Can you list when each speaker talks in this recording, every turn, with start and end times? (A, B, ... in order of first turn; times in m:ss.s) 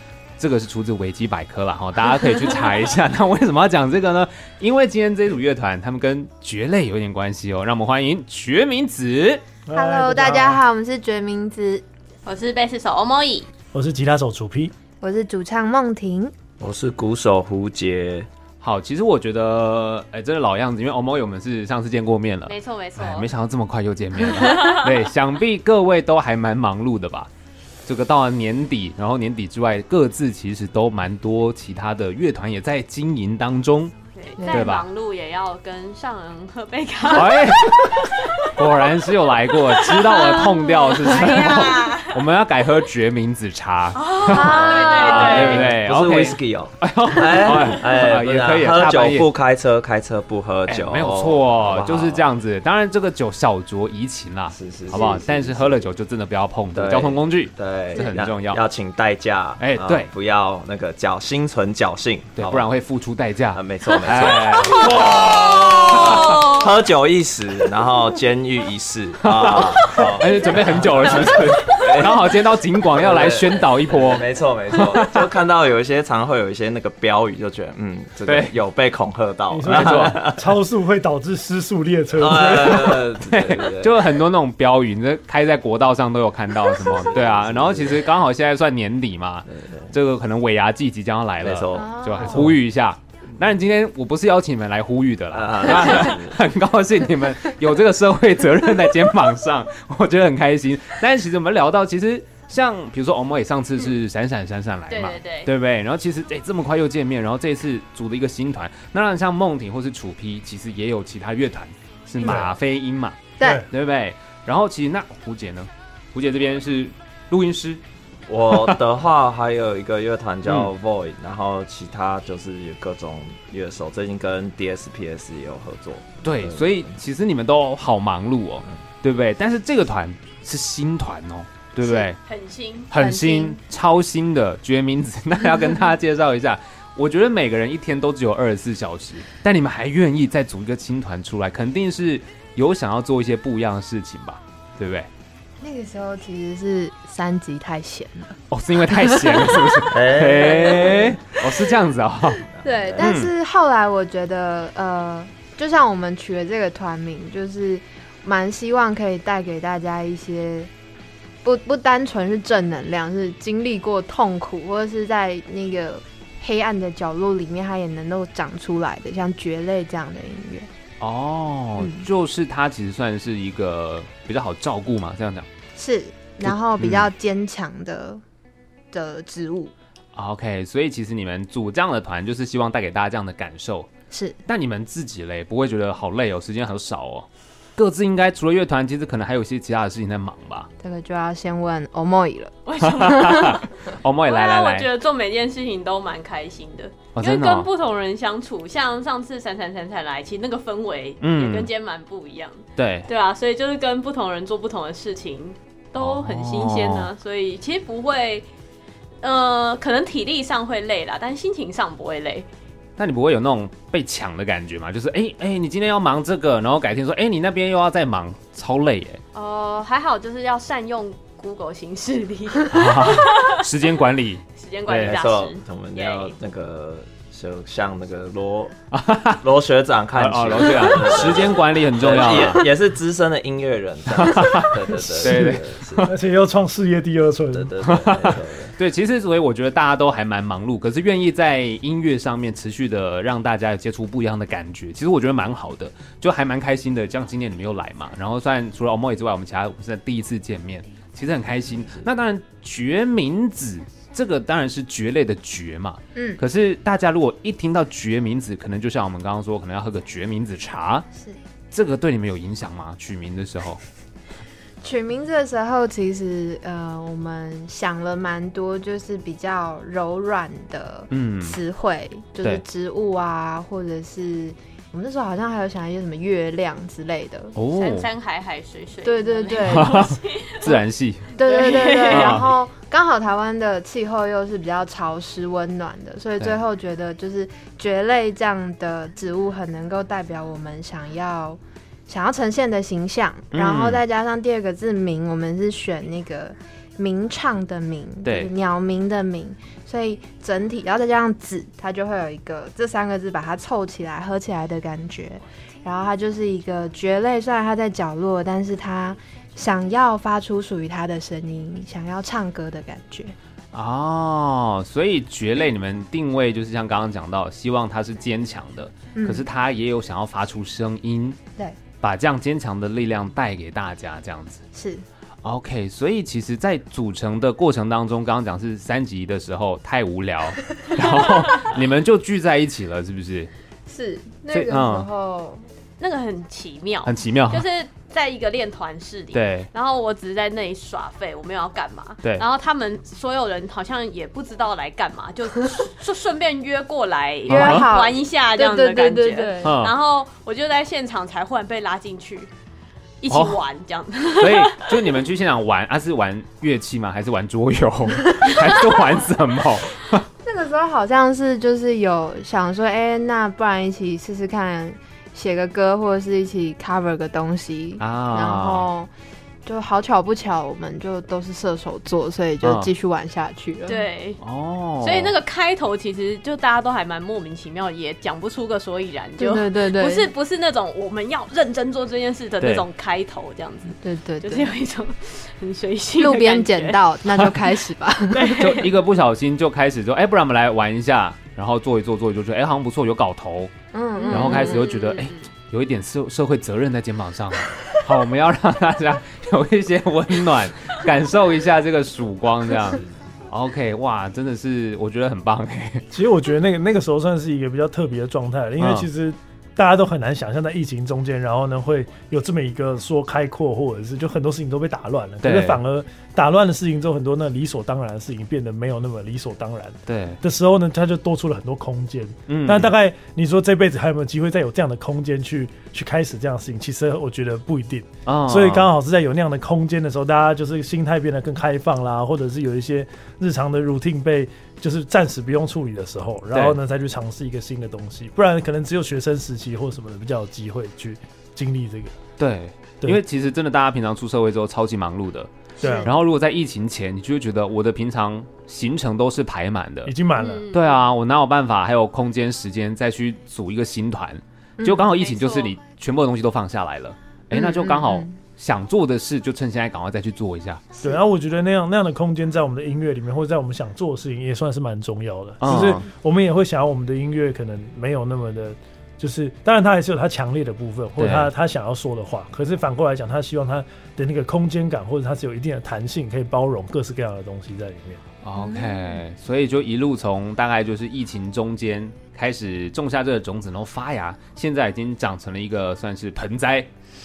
0:00.4-0:09.4 A
0:09.6-0:10.6 B
0:09.7-0:11.8 C
0:12.2-0:13.5 D
0:13.7-0:14.7 B
0:15.0-0:16.3 C
0:16.6-0:18.3 E
0:18.6-0:27.3 A
0:22.5-0:23.3 D
0:24.2-0:25.0 D
0:27.8-0:33.9 A
0:34.1-0:38.7 D
0:34.4-0:34.7 C
0:34.5-0:34.8 A
0:37.1-0:49.3 A
0:39.7-0:42.2 D
0:43.9-0:45.7 D
0:44.2-0:45.6 C
0:44.7-0:52.2 E
0:50.7-0:58.6 A
0:54.5-0:55.8 E
0:56.7-1:02.7 E
0:59.6-1:00.1 A
1:02.4-1:06.6 A
1:03.5-1:12.4 E
1:05.3-1:06.7 D
1:09.2-1:15.2 A
1:10.3-1:11.5 D
1:12.9-1:20.5 E
1:18.3-1:18.5 A
1:19.5-1:23.1 B
1:19.7-1:20.2 A
1:22.2-1:24.2 E
1:23.2-1:57.8 A
1:26.8-1:28.0 E
1:29.5-1:29.9 E
1:31.4-1:32.5 E
1:31.7-1:32.5 C
1:32.2-1:32.5 B
1:35.3-1:36.4 E
1:44.9-1:45.5 D
1:52.2-1:52.6 B
1:53.4-1:53.6 C
1:58.3-2:06.9 E
1:58.5-1:58.8 A
2:06.2-2:12.2 A
2:12.2-2:13.0 D
2:12.9-2:25.1 A
2:12.9-2:13.6 C
2:25.6-2:28.4 C
2:28.5-2:32.4 A
2:28.9-2:29.9 C
2:29.9-2:31.4 E
2:30.7-2:31.0 C
2:32.3-2:33.1 E
2:32.6-2:40.7 C
2:33.0-2:33.3 A
2:41.4-2:50.7 C
2:51.0-2:55.5 A
2:51.8-2:52.0 C
2:55.8-2:58.2 C
2:56.4-2:57.1 A
2:58.9-2:59.7 C
3:00.1-3:03.9 A
3:04.1-3:04.4 C
3:04.5-3:10.7 A
3:10.8-3:13.6 C
3:12.6-3:13.6 D
3:12.8-3:14.9 A
3:14.2-3:28.4 D
3:17.1-3:17.7 A
3:21.2-3:21.7 A
3:22.8-3:23.1 A
3:26.0-3:27.1 A
3:29.2-3:32.5 D
3:33.0-3:39.2 A
3:39.3-3:43.8 D
3:42.7-3:45.2 A
3:44.6-3:46.4 D
3:45.0-3:48.7 E
3:48.9-3:49.4 A
3:49.4-3:56.1 E
3:50.2-3:52.7 A
3:54.1-3:56.1 A
3:55.2-3:57.8 B
3:57.5-3:58.7 E
3:57.8-4:21.1 A
4:16.1-4:16.4 C
4:21.7-4:23.8 A
4:24.8-4:37.5 C
4:31.1-4:31.6 A
4:37.5-4:38.1 A
4:37.7-4:40.8 D
4:39.0-4:40.1 C
4:39.6-4:41.3 A
4:41.4-5:13.3 C
4:41.4-4:42.4 D
4:42.1-4:42.5 A
4:53.5-4:54.0 A
4:58.2-4:58.5 A
5:13.7-5:21.4 A
5:19.1-5:19.4 C
5:22.0-5:24.6 A
5:24.7-5:25.0 C
5:25.4-5:33.5 A
5:33.9-5:35.6 C
5:34.5-5:35.1 A
5:36.0-5:52.5 D
5:37.0-5:37.6 A
5:39.3-5:39.7 A
5:47.5-5:49.7 C
5:47.5-5:47.9 A
5:49.6-5:49.9 A
5:53.2-5:55.1 D
5:53.3-5:53.6 A
5:54.3-6:00.2 A
6:00.4-6:09.1 C
6:08.0-6:08.9 A
6:09.6-6:14.1 C
6:12.6-6:12.9 A
6:13.9-6:14.4 D
6:14.4-6:15.3 A
6:15.0-6:27.0 D
6:19.4-6:20.3 C
6:22.6-6:22.8 A
6:24.0-6:24.7 C
6:26.2-6:28.6 C
6:28.3-6:29.0 D
6:28.5-6:33.7 A
6:33.9-6:34.8 C
6:34.2-6:35.4 D
6:34.3-6:46.1 A
6:46.1-7:22.2 B
6:48.8-6:49.1 A
6:55.4-6:55.8 A
7:00.0-7:00.4 A
7:02.5-7:02.9 A
7:08.2-7:08.9 A
7:16.5-7:16.8 A
7:22.4-7:30.1 A
7:25.8-7:26.1 C
7:25.8-7:26.1 B
7:30.0-7:30.7 B
7:30.4-7:31.0 D
7:30.6-7:41.0 A
7:34.8-7:35.1 C
7:35.0-7:35.8 D
7:37.5-7:38.4 C
7:41.0-7:58.2 B
7:45.6-7:46.1 A
7:51.2-7:51.5 A
7:58.4-8:06.9 A
7:58.6-7:59.2 C